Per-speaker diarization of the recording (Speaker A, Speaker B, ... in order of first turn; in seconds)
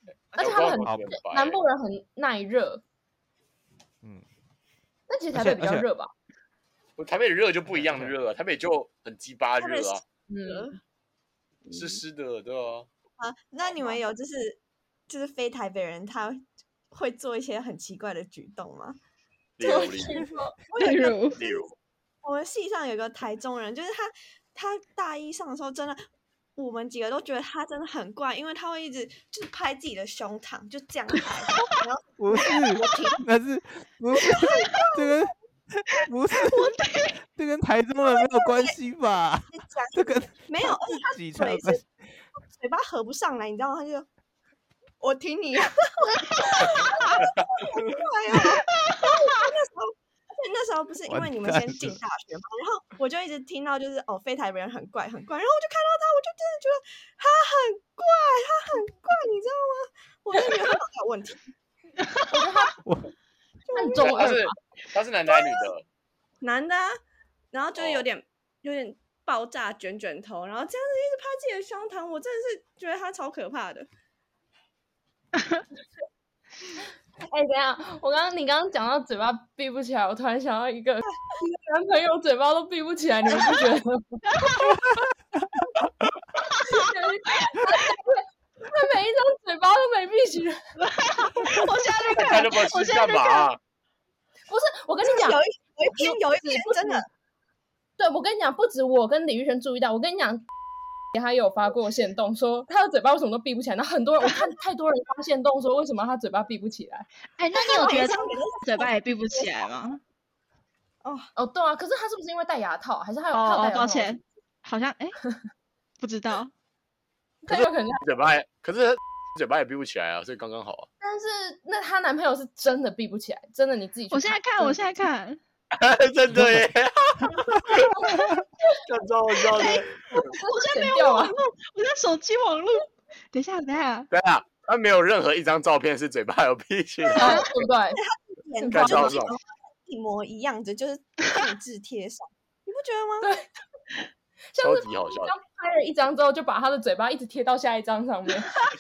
Speaker A: 0.3-1.6, 7.0-10.0, 11.7-12.9, 19.6-20.3, 21.3-21.7, 47.2-47.5, 64.0-65.8, 67.8-68.0, 92.1-93.6, 117.5-120.9, 125.7-128.0, 128.9-130.3, 134.1-137.5, 138.7-139.3, 144.6-145.3
Speaker B: 0.4-2.8, 5.1-6.1, 10.3-10.8, 19.6-20.6, 62.3-62.8, 63.7-64.5, 77.2-84.6, 86.6-90.6, 94.5-97.0, 98.0-100.5, 101.1-107.1, 111.4-114.2, 117.4-118.0, 121.0-124.8, 129.5-131.3, 137.2-138.0, 138.6-139.2, 144.5-148.6
Speaker C: 0.8-1.1, 5.3-5.9, 7.7-8.2, 32.2-36.8, 37.3-41.8, 51.1-52.0, 62.8-63.1, 126.3-126.7
Speaker D: 9.6-10.8, 11.7-12.0, 13.2-19.0, 20.7-21.6, 22.2-26.0, 26.6-33.2, 34.3-35.2, 38.4-38.8, 39.5-41.8, 42.5-44.1, 45.0-61.4, 63.7-64.3, 65.4-65.6, 66.4-67.0, 67.5-73.9, 95.0-97.1, 107.5-109.7, 111.0-111.3, 137.1-137.4, 137.9-143.3
Speaker E: 20.8-21.4, 36.5-37.2, 46.2-47.1, 48.8-49.5, 75.4-75.6, 84.3-84.8, 90.8-93.5, 107.4-110.0, 113.3-115.2, 116.0-116.5, 124.1-125.4, 130.5-134.1